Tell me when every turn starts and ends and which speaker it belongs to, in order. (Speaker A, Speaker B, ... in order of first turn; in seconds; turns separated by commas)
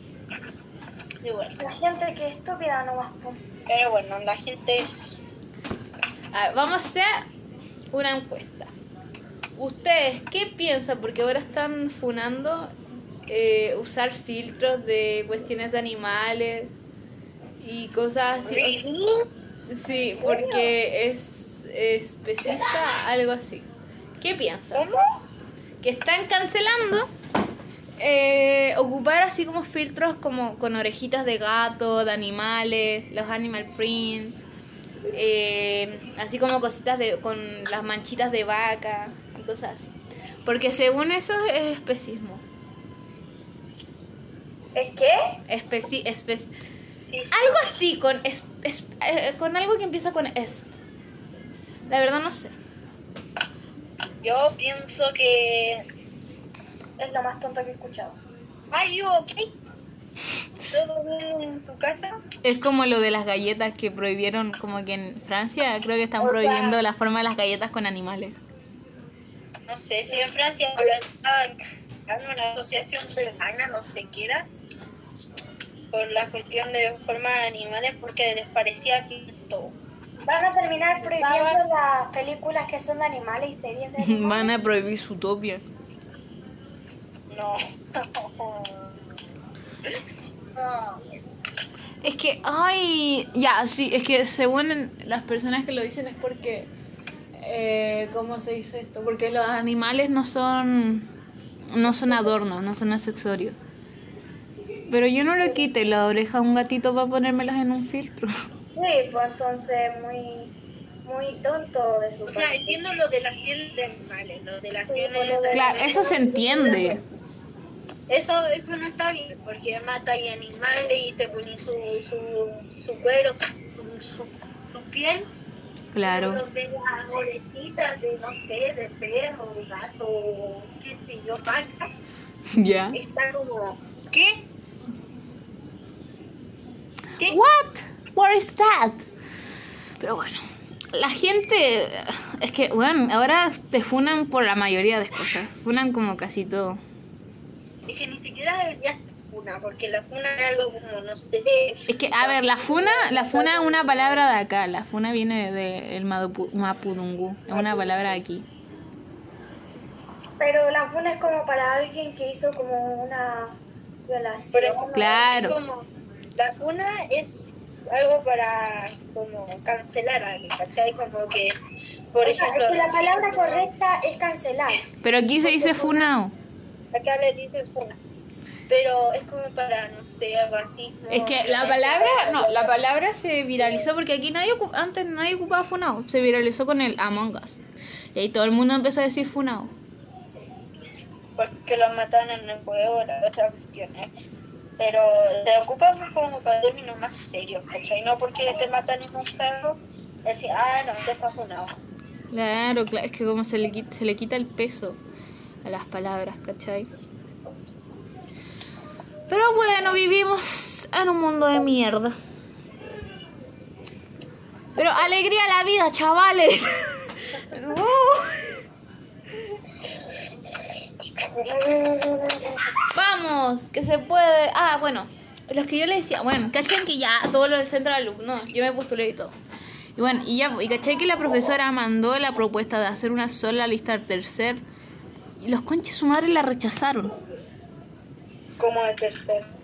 Speaker A: 1.2-1.6, Speaker B: 1.6-3.4, Speaker A: 3.6-5.2, Speaker C: 6.3-7.2, Speaker C: 7.9-8.7, Speaker C: 9.6-12.7, Speaker C: 13.3-16.7, Speaker C: 17.6-18.9, Speaker A: 18.4-19.3, Speaker C: 19.7-23.7, Speaker B: 20.2-20.6, Speaker C: 24.2-24.9, Speaker A: 24.7-25.1, Speaker C: 25.8-27.1, Speaker C: 28.0-34.4, Speaker C: 35.1-42.4, Speaker B: 44.7-45.4, Speaker C: 45.5-46.5, Speaker A: 47.1-47.8, Speaker C: 47.3-50.7, Speaker C: 51.9-52.5, Speaker A: 54.2-55.8, Speaker B: 57.0-58.2, Speaker A: 58.7-59.5, Speaker A: 60.7-62.2, Speaker C: 62.4-68.3, Speaker A: 66.2-66.8, Speaker A: 69.7-74.5, Speaker A: 75.9-79.7, Speaker B: 80.2-84.5, Speaker A: 81.0-81.6, Speaker C: 84.0-85.6, Speaker A: 87.3-89.0, Speaker A: 90.5-91.3, Speaker C: 92.0-96.7, Speaker C: 97.4-101.1, Speaker C: 101.7-103.5, Speaker C: 104.9-108.3, Speaker B: 108.7-110.5, Speaker B: 111.0-112.8, Speaker A: 112.3-117.0, Speaker B: 114.9-116.9, Speaker C: 115.5-117.0, Speaker A: 118.1-125.3, Speaker C: 125.9-126.4, Speaker A: 126.0-131.9, Speaker C: 132.5-133.0, Speaker A: 132.9-134.4, Speaker C: 137.2-139.0, Speaker C: 140.0-146.8, Speaker A: 147.8-154.3, Speaker C: 151.9-158.4, Speaker A: 157.5-158.2, Speaker B: 160.4-165.3, Speaker A: 164.5-171.5, Speaker C: 164.9-165.6, Speaker A: 172.1-173.7, Speaker B: 172.2-174.9, Speaker C: 175.0-176.3, Speaker A: 175.4-176.0, Speaker A: 176.9-178.0, Speaker A: 178.7-182.8, Speaker C: 181.1-187.6, Speaker C: 188.1-189.7, Speaker A: 191.3-194.1, Speaker A: 194.8-201.8, Speaker C: 202.3-205.0, Speaker C: 205.6-206.9, Speaker C: 209.3-212.2, Speaker C: 214.8-218.6, Speaker A: 221.3-222.5, Speaker C: 222.9-229.3, Speaker C: 229.9-234.6, Speaker C: 235.4-237.2, Speaker A: 238.6-239.5